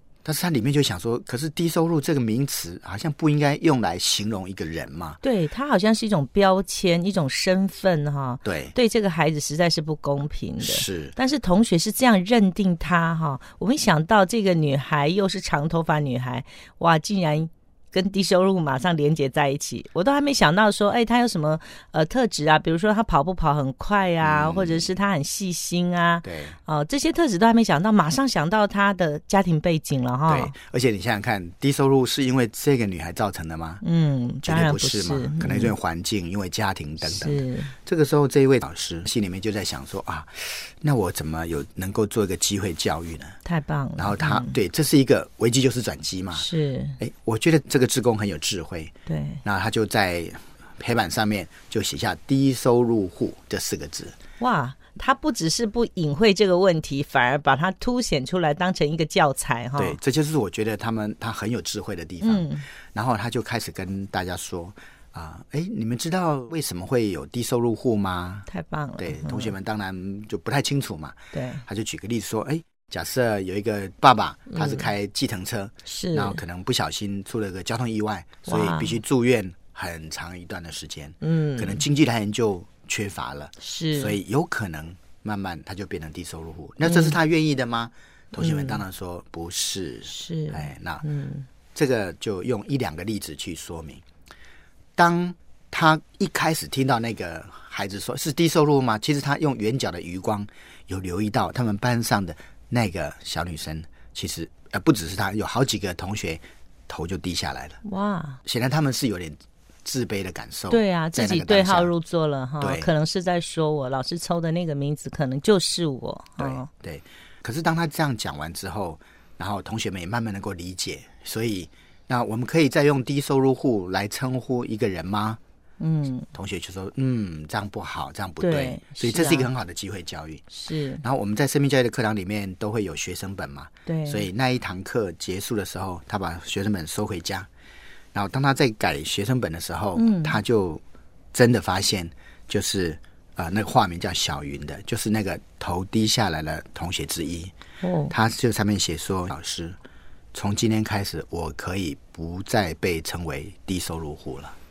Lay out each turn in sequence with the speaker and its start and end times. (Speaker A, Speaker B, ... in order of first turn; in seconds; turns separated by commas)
Speaker A: 0.2-5.2, Speaker B: 5.2-30.5, Speaker A: 8.4-8.7, Speaker A: 10.6-11.2, Speaker A: 24.2-24.9, Speaker A: 26.2-26.6, Speaker A: 30.3-33.8, Speaker B: 33.8-35.7, Speaker A: 34.4-43.4, Speaker B: 37.0-37.7, Speaker B: 43.4-44.6, Speaker A: 44.0-46.5, Speaker B: 46.3-47.0, Speaker A: 47.0-48.9, Speaker B: 49.1-49.4, Speaker A: 49.4-54.1, Speaker B: 54.4-60.0, Speaker A: 59.8-68.5, Speaker B: 62.2-62.6, Speaker B: 68.5-69.5, Speaker A: 69.0-91.1, Speaker B: 71.3-71.6, Speaker B: 74.5-74.9, Speaker B: 75.8-76.4, Speaker B: 78.4-79.0, Speaker B: 81.2-81.8, Speaker B: 83.6-84.2, Speaker B: 86.8-87.2, Speaker B: 88.3-88.8, Speaker B: 90.1-91.5, Speaker A: 91.7-94.0, Speaker A: 95.0-107.8, Speaker B: 107.8-108.4, Speaker A: 108.4-111.9, Speaker B: 110.7-116.7, Speaker A: 112.6-112.9, Speaker A: 116.4-125.4, Speaker B: 125.8-126.3, Speaker A: 126.3-130.4, Speaker B: 128.4-129.5, Speaker B: 130.5-131.0, Speaker A: 131.0-137.5, Speaker B: 133.8-134.3, Speaker A: 138.1-140.8, Speaker B: 139.9-140.4, Speaker A: 141.3-147.5, Speaker B: 147.8-148.1, Speaker A: 148.1-149.8, Speaker A: 150.3-154.5